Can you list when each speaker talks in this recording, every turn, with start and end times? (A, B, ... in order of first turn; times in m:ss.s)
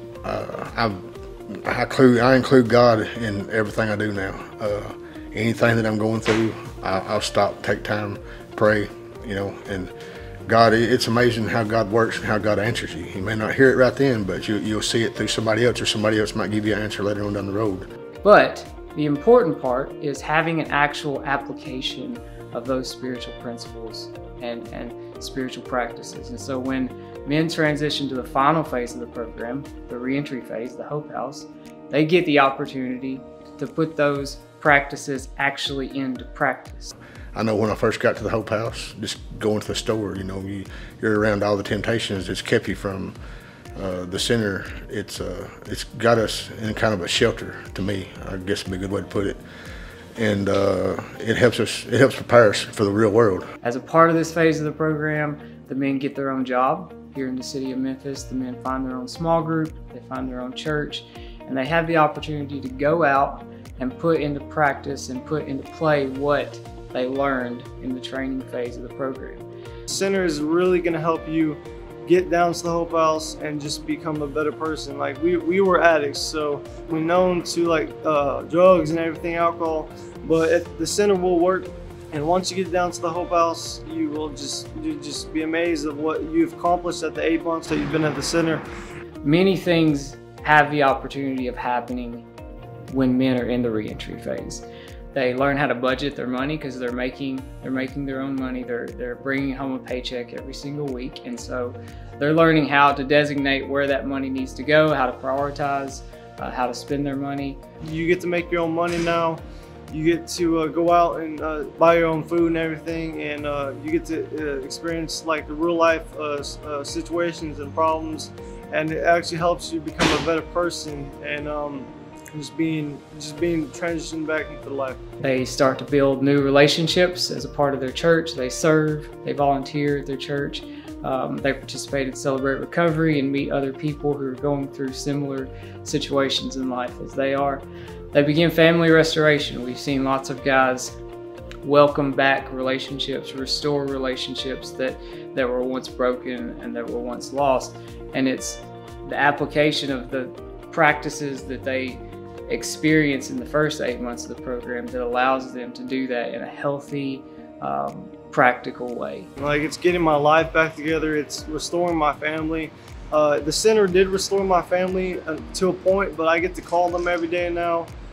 0:00.2-0:09.9 A
0:10.5-0:17.9 A
0:18.2-0:36.9 B
0:37.3-0:43.2 A
0:43.8-0:49.4 A
0:50.2-0:53.5 A
0:53.6-1:09.4 B
1:09.9-1:28.6 C
1:29.2-1:32.2 B
1:32.9-1:47.6 B
1:47.8-1:49.4 C
1:49.9-2:05.0 C
2:05.2-2:21.0 B
2:21.6-2:39.3 B
2:39.4-2:47.9 C